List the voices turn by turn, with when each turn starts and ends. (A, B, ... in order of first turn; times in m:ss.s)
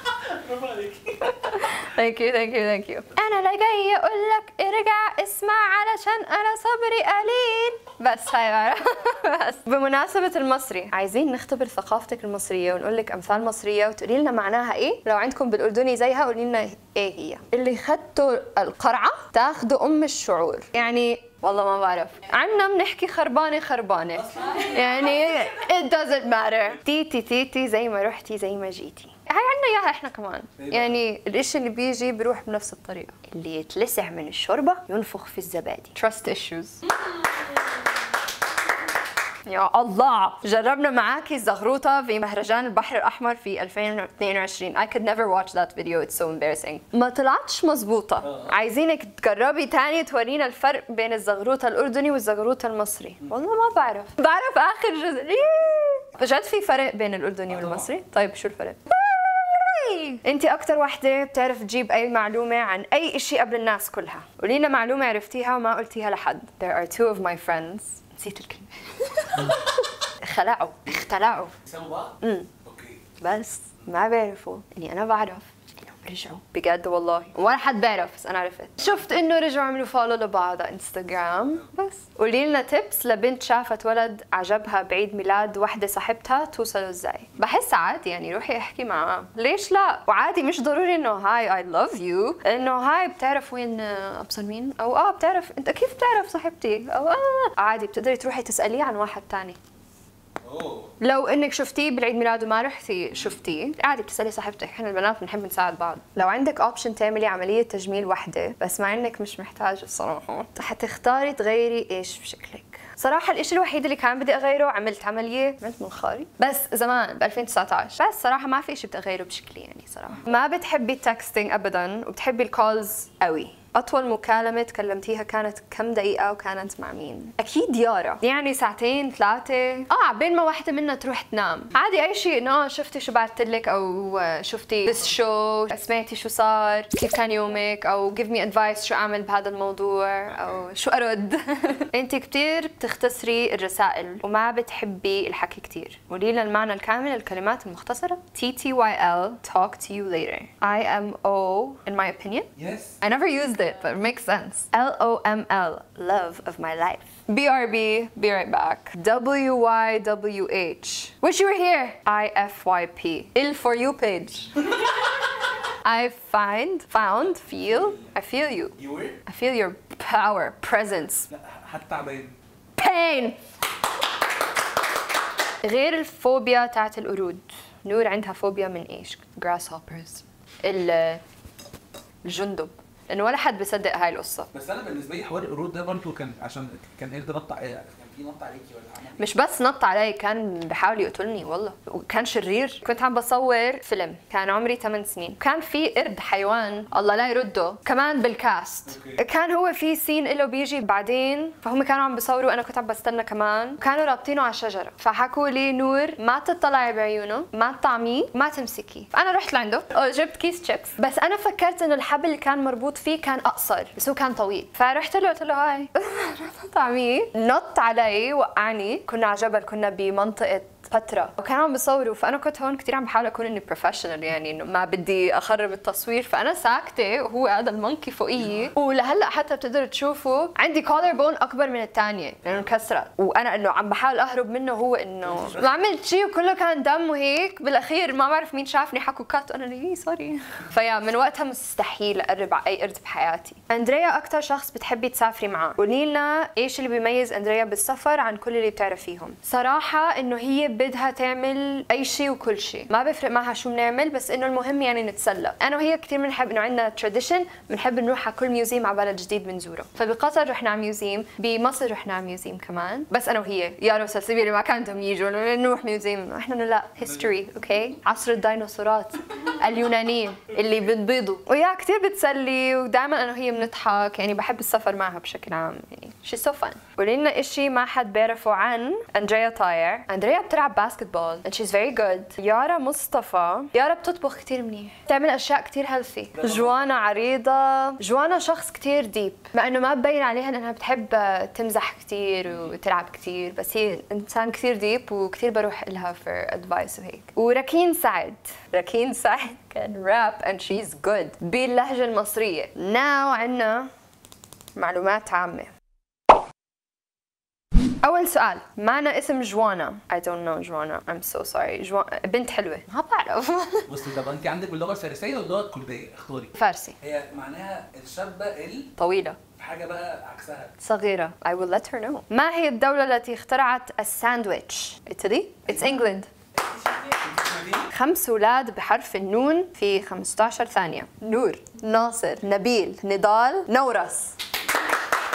0:00.3-0:01.3 A
0:01.2-0:36.8 B
0:24.2-0:25.5 A
0:30.6-0:31.0 A
0:39.4-1:11.6 B
0:48.2-0:48.6 A
0:57.5-0:57.9 A
1:11.6-1:13.0 A
1:12.2-1:12.5 B
1:13.2-1:39.6 B
1:40.4-1:40.9 A
1:41.0-2:44.7 B
2:32.6-2:33.0 A
2:45.8-2:51.3 B
2:47.4-2:48.1 A
2:48.8-2:49.2 A
2:51.3-2:52.4 A
2:52.8-2:53.4 B
2:55.6-3:01.2 B
3:02.2-3:04.5 B
3:04.5-3:09.3 A
3:09.2-5:03.9 B
3:18.9-3:19.2 A
3:55.3-3:55.8 A
4:46.4-4:46.9 A
5:04.8-5:05.7 B
5:08.0-5:13.9 B
5:13.9-5:18.9 A
5:16.5-5:17.0 B
5:19.0-5:19.4 B
5:19.6-5:20.7 A
5:20.8-5:26.3 B
5:26.8-5:27.9 A
5:27.9-5:34.4 B